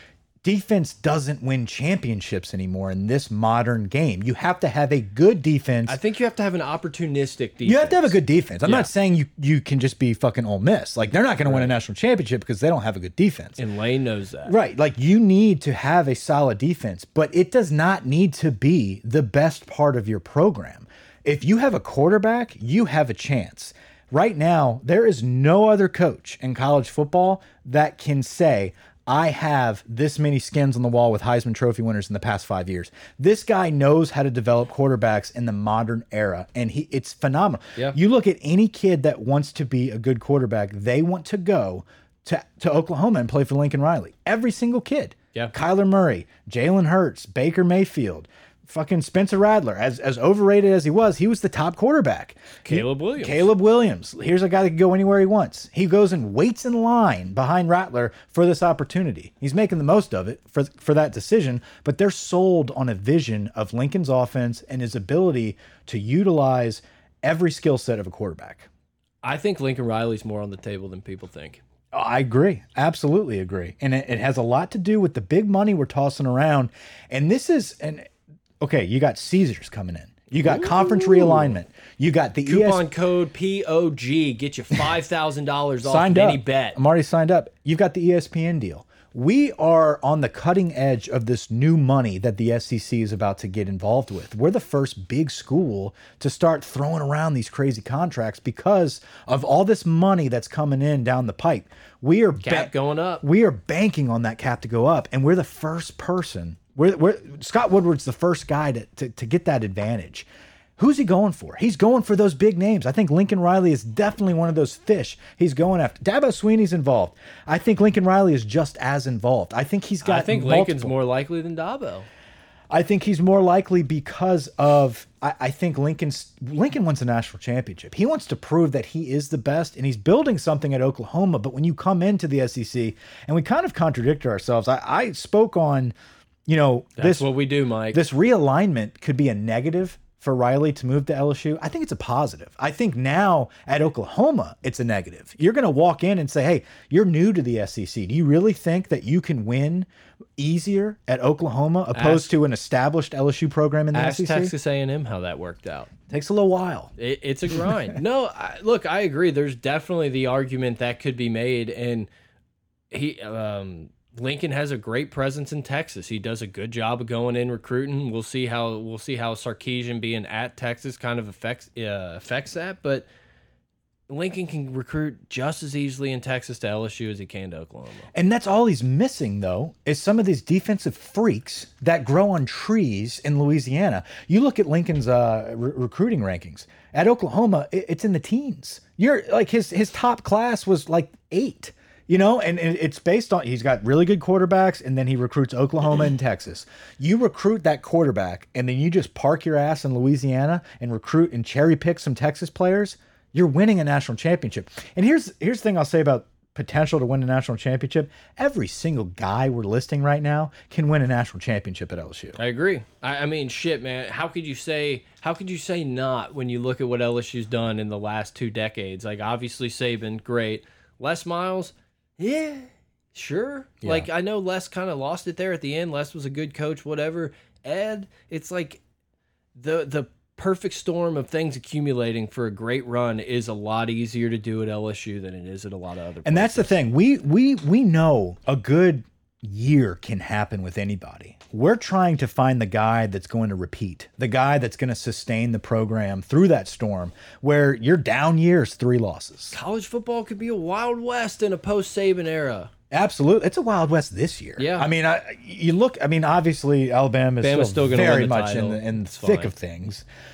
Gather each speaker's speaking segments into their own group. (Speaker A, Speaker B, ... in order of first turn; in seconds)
Speaker A: 0.4-6.0, 7.6-13.6, 14.5-68.7, 71.9-78.1, 78.6-82.8, 85.8-120.9, 122.7-135.9, 136.5-137.3, 137.9-154.5, 156.1-156.9, 178.1-212.4, 223.8-224.1, 236.2-249.6, 252.9-260.0
Speaker B: 5.9-8.9, 11.4-11.7, 13.6-14.5, 52.6-53.5, 69.2-71.6, 80.4-81.5, 82.5-86.8, 102.4-103.2, 120.0-122.1, 137.0-138.0, 151.9-152.3, 153.9-155.9, 157.0-162.1, 162.9-173.1, 174.1-178.1, 212.4-228.8, 229.6-236.8, 249.5-252.7, 254.6-254.9, 257.4-259.5